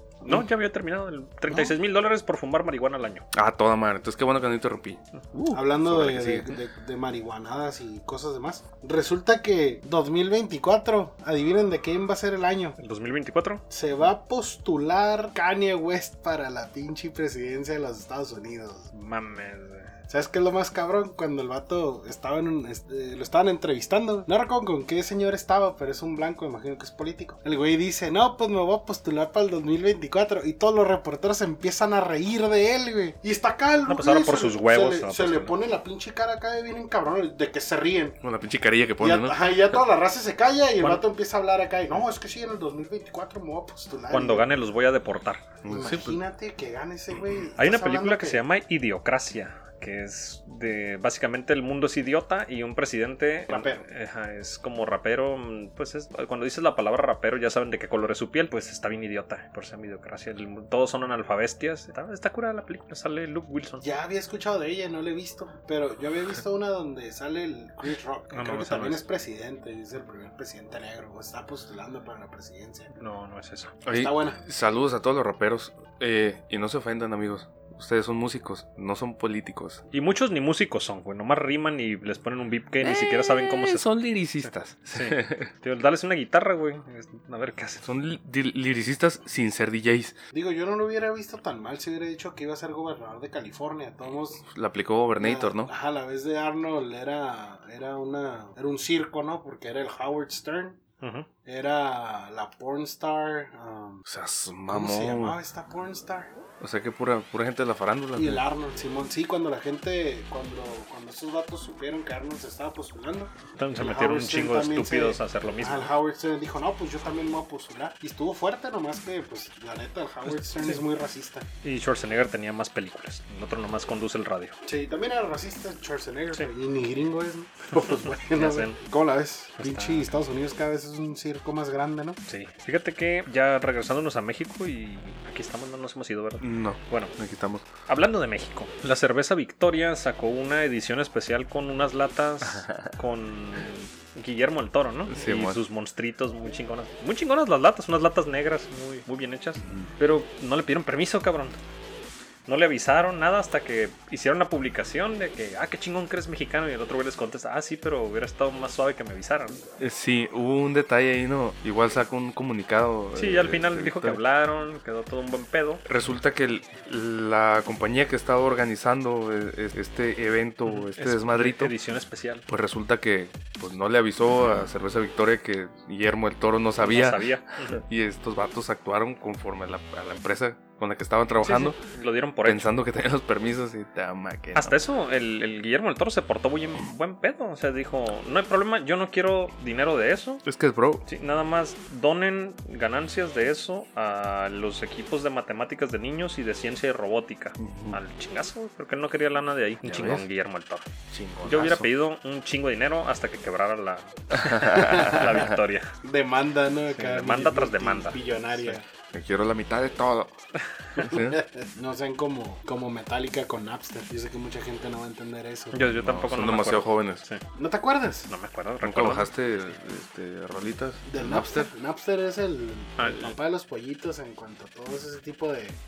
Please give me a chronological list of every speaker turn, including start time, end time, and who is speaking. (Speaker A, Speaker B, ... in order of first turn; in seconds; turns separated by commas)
Speaker A: 0.2-3.3, Speaker B: 3.3-6.6, Speaker C: 5.5-12.8, Speaker A: 12.8-13.6, Speaker C: 13.7-18.9, Speaker A: 18.9-19.9, Speaker C: 20.1-38.2, Speaker A: 33.9-35.5, Speaker B: 38.2-39.4, Speaker C: 39.0-44.5, Speaker A: 44.1-45.4, Speaker B: 45.6-46.2, Speaker C: 45.7-48.4, Speaker A: 47.6-63.9, Speaker C: 53.5-53.9, Speaker C: 63.8-72.9, Speaker A: 68.3-69.0, Speaker A: 73.0-73.8, Speaker B: 73.8-79.8, Speaker C: 73.9-74.4, Speaker A: 79.9-83.9, Speaker B: 82.8-85.5, Speaker A: 84.9-87.9, Speaker B: 87.8-90.2, Speaker C: 90.3-94.4, Speaker B: 94.5-95.7, Speaker C: 95.2-100.8, Speaker A: 101.0-101.3, Speaker C: 101.5-104.1, Speaker B: 104.1-105.4, Speaker C: 104.7-106.3, Speaker B: 106.6-108.4, Speaker C: 108.2-121.5, Speaker A: 113.6-115.9, Speaker A: 121.6-124.6, Speaker C: 124.7-132.2, Speaker A: 128.3-128.8, Speaker A: 129.6-130.1, Speaker A: 132.3-137.2, Speaker B: 136.4-137.7, Speaker A: 137.9-151.6, Speaker B: 142.4-142.9, Speaker B: 145.1-145.6, Speaker B: 149.6-149.9, Speaker A: 152.5-159.6, Speaker B: 159.8-164.2, Speaker A: 163.2-165.8, Speaker B: 165.8-171.7, Speaker A: 170.7-172.4, Speaker B: 172.5-181.8, Speaker A: 176.8-177.8, Speaker A: 181.4-182.7, Speaker B: 182.4-184.8, Speaker A: 184.6-190.4, Speaker B: 190.5-191.0, Speaker A: 191.1-200.9, Speaker B: 197.6-198.0, Speaker B: 199.8-200.3, Speaker B: 201.1-201.9, Speaker A: 201.4-205.9, Speaker B: 204.4-205.4, Speaker C: 204.7-205.3, Speaker C: 206.0-208.8, Speaker A: 206.9-208.8, Speaker B: 209.1-210.3, Speaker B: 211.0-211.4, Speaker C: 211.0-215.9, Speaker A: 215.7-217.4, Speaker B: 216.0-217.2, Speaker C: 217.6-218.3, Speaker A: 218.3-219.3, Speaker B: 218.8-221.7, Speaker C: 221.1-225.8, Speaker A: 223.0-223.4